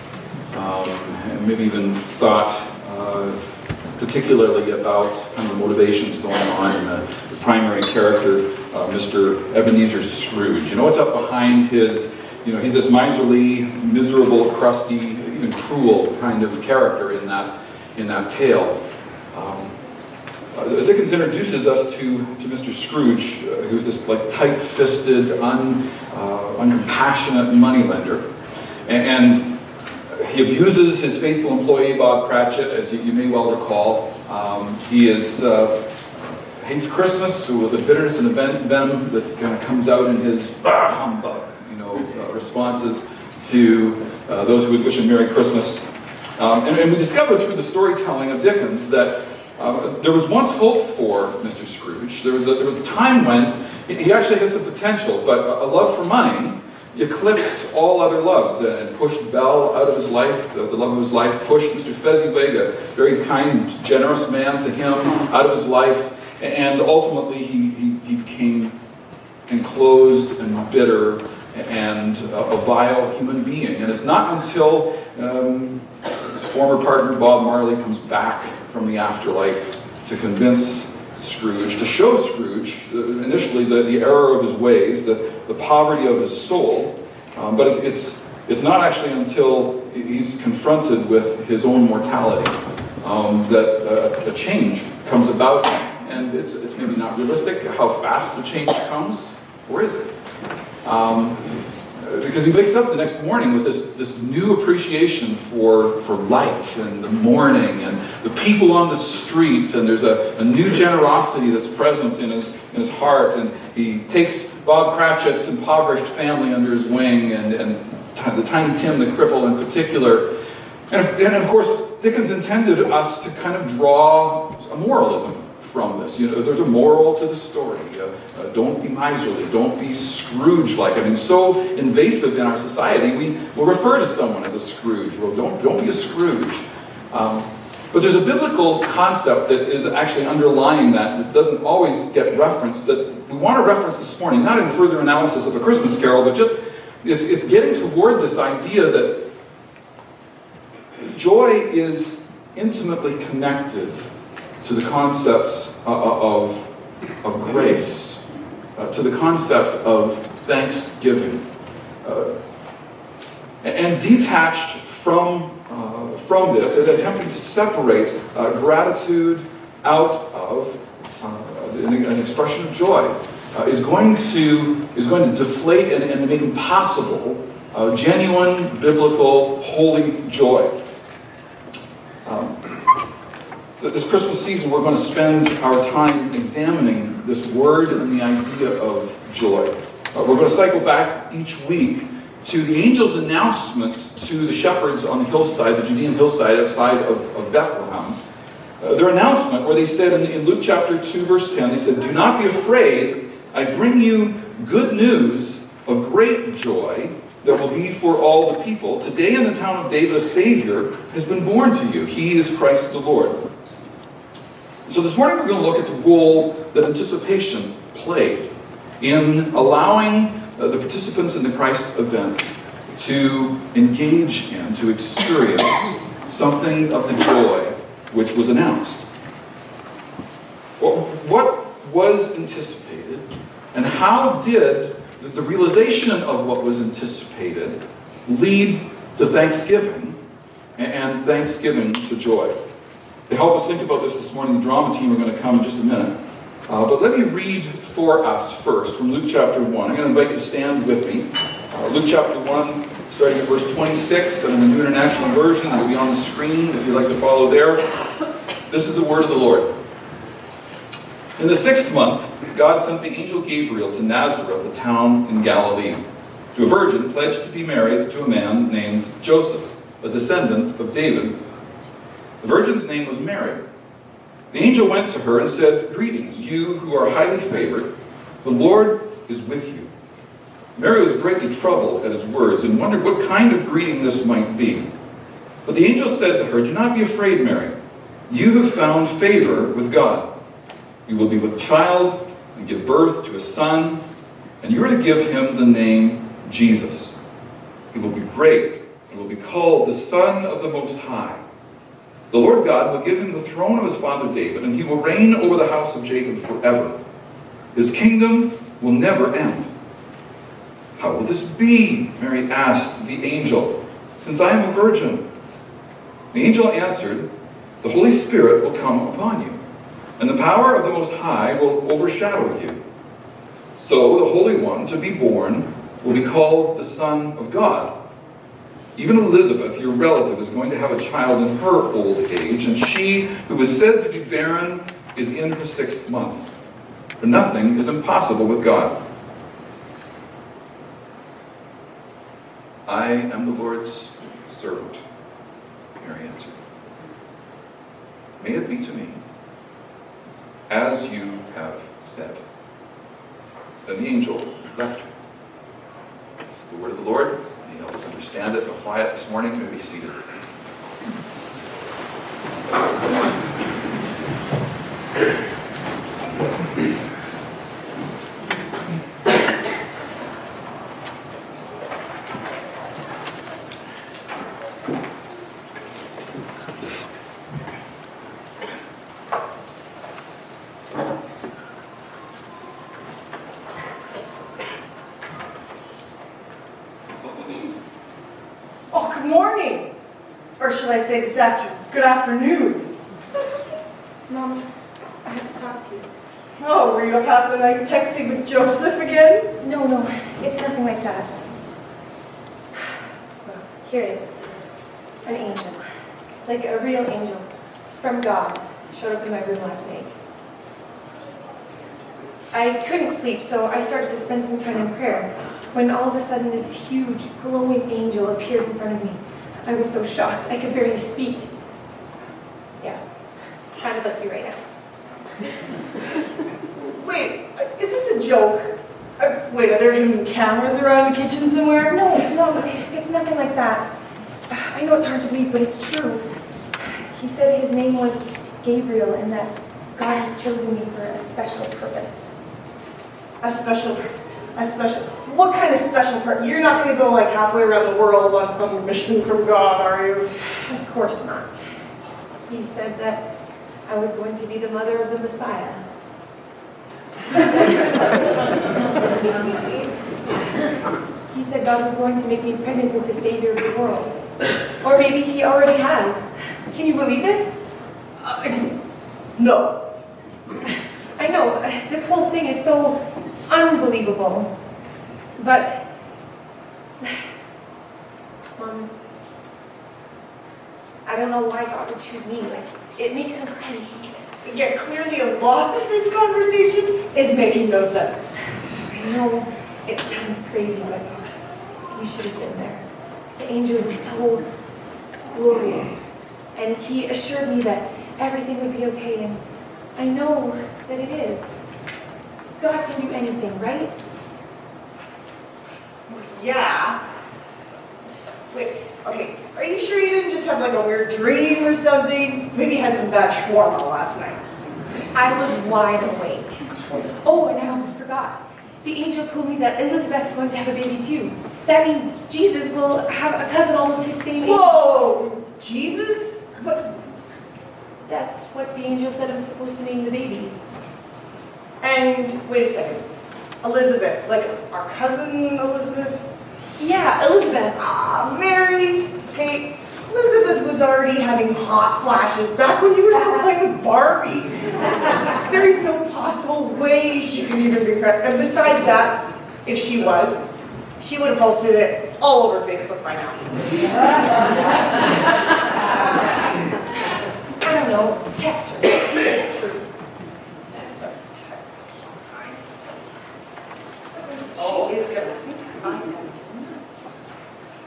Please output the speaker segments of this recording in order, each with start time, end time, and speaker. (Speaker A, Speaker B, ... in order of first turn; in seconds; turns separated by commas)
Speaker A: 0.5-3.4, Speaker A: 4.0-18.8, Speaker A: 19.3-19.8, Speaker A: 20.5-28.2, Speaker A: 28.9-29.6, Speaker A: 30.1-45.8, Speaker A: 46.4-68.8, Speaker A: 69.5-100.1, Speaker A: 100.8-120.3, Speaker A: 120.9-149.2, Speaker A: 151.0-154.0, Speaker A: 154.6-156.7, Speaker A: 157.2-158.2, Speaker A: 158.8-161.4, Speaker A: 162.0-162.3, Speaker A: 163.6-180.7, Speaker A: 182.2-182.7, Speaker A: 183.8-198.2, Speaker A: 198.8-213.4, Speaker A: 214.9-218.5, Speaker A: 219.0-229.0, Speaker A: 230.8-240.2, Speaker A: 240.8-242.6, Speaker A: 243.3-246.1, Speaker A: 246.7-257.9, Speaker A: 258.7-259.7, Speaker A: 261.4-266.0, Speaker A: 266.5-271.4, Speaker A: 272.4-273.6, Speaker A: 274.5-277.9, Speaker A: 278.4-279.9, Speaker A: 280.8-284.9, Speaker A: 285.6-287.7, Speaker A: 288.3-290.3, Speaker A: 291.1-294.0, Speaker A: 294.6-297.2, Speaker A: 297.9-301.4, Speaker A: 302.3-306.9, Speaker A: 307.7-309.7, Speaker A: 311.0-315.2, Speaker A: 316.3-317.3, Speaker A: 317.8-319.6, Speaker A: 320.2-322.8, Speaker A: 323.8-327.9, Speaker A: 328.9-336.5, Speaker A: 337.2-338.9, Speaker A: 342.9-345.0, Speaker A: 346.0-346.6, Speaker A: 348.4-349.2, Speaker A: 350.7-352.4, Speaker A: 353.9-355.1, Speaker A: 356.4-360.2, Speaker B: 388.9-389.9, Speaker B: 390.6-392.9, Speaker C: 394.3-394.7, Speaker C: 395.2-396.1, Speaker B: 396.6-399.5, Speaker C: 399.6-401.5, Speaker C: 402.8-404.4, Speaker C: 405.2-405.8, Speaker C: 406.4-407.5, Speaker C: 408.0-410.1, Speaker C: 412.5-421.5, Speaker C: 423.8-424.6, Speaker B: 426.7-432.0, Speaker C: 431.9-433.9, Speaker C: 434.5-442.2, Speaker B: 443.4-450.3, Speaker C: 450.5-451.6, Speaker C: 452.4-453.2, Speaker C: 453.9-455.8, Speaker C: 457.3-459.8, Speaker C: 461.3-464.2, Speaker C: 464.8-467.5, Speaker B: 468.2-468.7, Speaker B: 469.4-469.8, Speaker C: 471.2-474.5, Speaker C: 475.4-475.8, Speaker C: 478.6-478.9, Speaker C: 481.1-484.1, Speaker B: 484.4-488.4, Speaker C: 488.9-491.3, Speaker C: 491.9-492.9, Speaker C: 493.4-494.5, Speaker C: 495.3-499.4, Speaker C: 499.9-501.6, Speaker C: 502.6-504.0, Speaker B: 506.1-507.0, Speaker B: 508.5-514.4, Speaker C: 515.1-524.8, Speaker B: 524.4-527.0, Speaker C: 528.1-530.6, Speaker B: 531.8-533.0, Speaker B: 533.6-536.2, Speaker C: 536.8-537.8, Speaker B: 537.8-550.4, Speaker B: 551.0-553.7, Speaker C: 557.6-559.9, Speaker B: 564.5-567.2